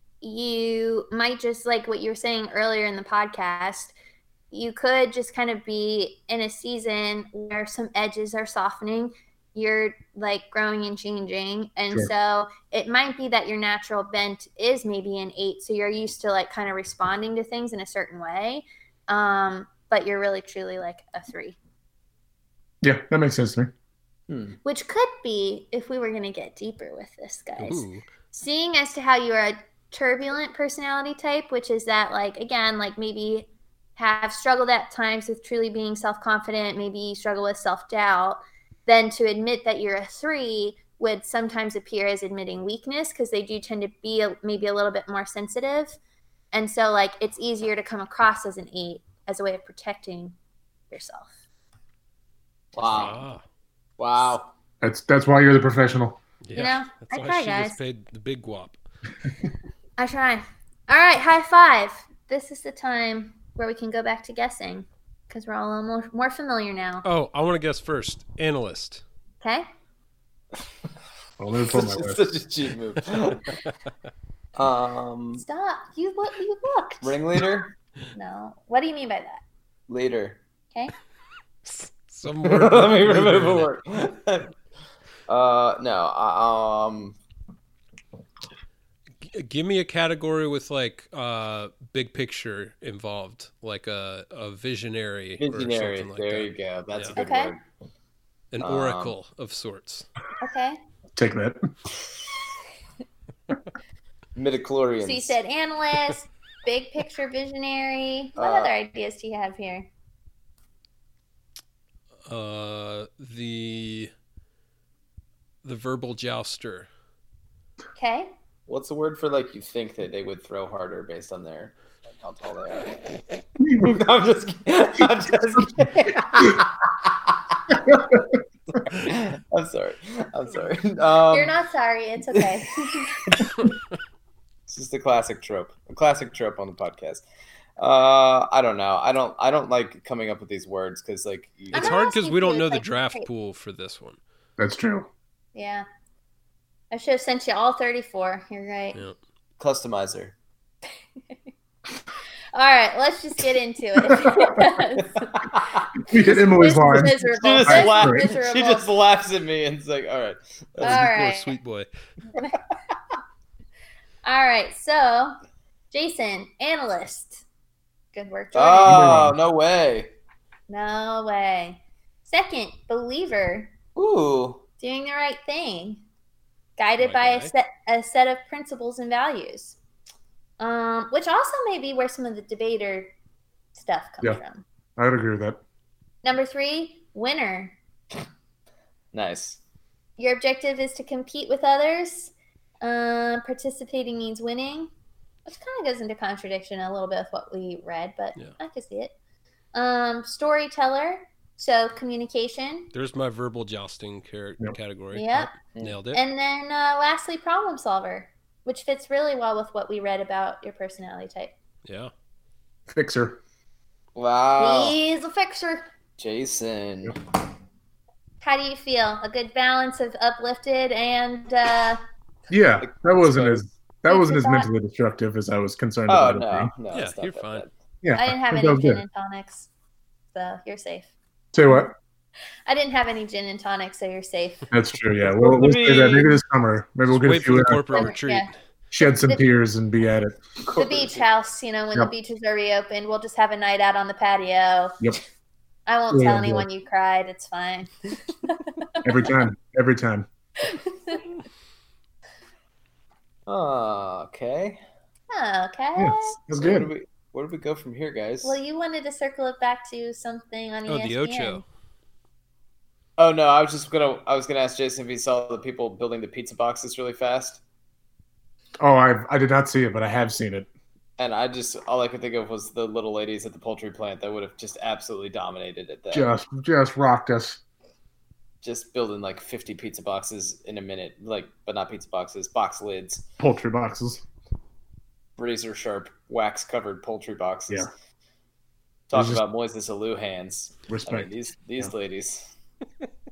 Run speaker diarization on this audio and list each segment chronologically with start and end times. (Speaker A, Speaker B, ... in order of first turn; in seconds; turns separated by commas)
Speaker A: 0.2-3.9, Speaker A: 4.5-21.6, Speaker B: 22.8-23.7, Speaker C: 24.3-24.6, Speaker A: 24.6-46.0, Speaker D: 27.6-28.0, Speaker A: 46.5-50.3, Speaker A: 50.9-51.3, Speaker C: 52.7-53.2, Speaker D: 52.9-53.4, Speaker C: 54.0-54.5, Speaker B: 54.8-56.2, Speaker D: 56.5-58.8, Speaker A: 56.5-57.8, Speaker A: 60.0-67.0, Speaker D: 67.0-69.0, Speaker B: 71.4-72.3, Speaker C: 71.7-73.5, Speaker C: 74.5-75.4, Speaker A: 75.4-77.2, Speaker C: 77.0-77.7, Speaker A: 78.1-79.4, Speaker C: 79.9-80.4, Speaker D: 81.6-83.7, Speaker C: 82.4-84.5, Speaker C: 85.3-87.2, Speaker D: 89.2-97.2, Speaker C: 95.4-97.6, Speaker A: 97.2-97.5, Speaker D: 98.5-100.1, Speaker C: 98.6-99.1, Speaker A: 100.4-100.8, Speaker B: 101.1-101.6, Speaker C: 104.3-105.3, Speaker A: 105.0-109.9, Speaker C: 108.4-108.7, Speaker D: 112.3-114.1, Speaker D: 115.6-116.9, Speaker A: 117.9-118.3, Speaker C: 118.7-128.0, Speaker C: 128.7-131.6, Speaker A: 131.3-133.4, Speaker C: 134.7-137.2, Speaker C: 137.8-142.0, Speaker A: 141.7-143.3, Speaker D: 141.7-144.2, Speaker B: 144.6-145.1, Speaker A: 145.5-145.8, Speaker A: 146.9-149.0, Speaker C: 149.6-150.3, Speaker A: 152.5-155.5, Speaker B: 154.2-154.6, Speaker C: 155.2-155.9, Speaker B: 156.0-158.2, Speaker A: 156.1-158.9, Speaker C: 157.3-161.0, Speaker A: 160.8-161.5, Speaker D: 160.8-161.9, Speaker A: 164.2-165.4, Speaker A: 165.9-167.4, Speaker A: 168.1-169.2, Speaker C: 168.5-170.1, Speaker B: 168.8-169.3, Speaker A: 170.7-173.7, Speaker C: 173.9-174.6, Speaker A: 174.8-176.0, Speaker A: 176.8-179.8, Speaker D: 177.0-177.5, Speaker A: 180.6-183.1, Speaker A: 183.7-184.6, Speaker B: 185.0-185.6, Speaker A: 186.2-187.7, Speaker C: 189.1-189.6, Speaker A: 190.2-194.9, Speaker A: 195.4-199.1, Speaker A: 199.7-202.9, Speaker D: 202.9-206.2, Speaker A: 205.1-205.5, Speaker A: 206.1-211.5, Speaker D: 211.8-212.1, Speaker B: 212.9-213.4, Speaker C: 214.2-214.9, Speaker A: 214.6-215.9, Speaker C: 216.2-217.2, Speaker A: 218.4-222.0, Speaker B: 222.5-226.7, Speaker C: 222.8-223.7, Speaker A: 224.1-224.7, Speaker C: 226.1-227.7, Speaker D: 226.9-227.6, Speaker B: 228.0-229.0, Speaker A: 228.1-229.7, Speaker A: 230.3-231.1, Speaker B: 231.5-231.9, Speaker A: 232.7-234.7, Speaker B: 234.7-238.1, Speaker C: 235.2-236.3, Speaker D: 237.1-238.5, Speaker A: 237.9-238.5, Speaker B: 238.9-240.5, Speaker A: 239.2-239.5, Speaker C: 240.7-241.2, Speaker A: 240.8-245.0, Speaker A: 245.9-249.1, Speaker B: 246.1-246.7, Speaker B: 249.0-250.2, Speaker A: 250.7-251.2, Speaker C: 253.5-254.8, Speaker A: 255.3-256.3, Speaker B: 255.9-256.9, Speaker C: 256.6-258.6, Speaker A: 258.4-261.6, Speaker D: 260.9-261.6, Speaker C: 263.2-267.6, Speaker B: 268.8-270.7, Speaker C: 271.2-276.3, Speaker B: 276.1-277.6, Speaker C: 278.6-283.2, Speaker B: 283.4-284.2, Speaker C: 285.4-287.9, Speaker C: 289.1-292.5, Speaker B: 289.1-289.4, Speaker B: 290.9-291.3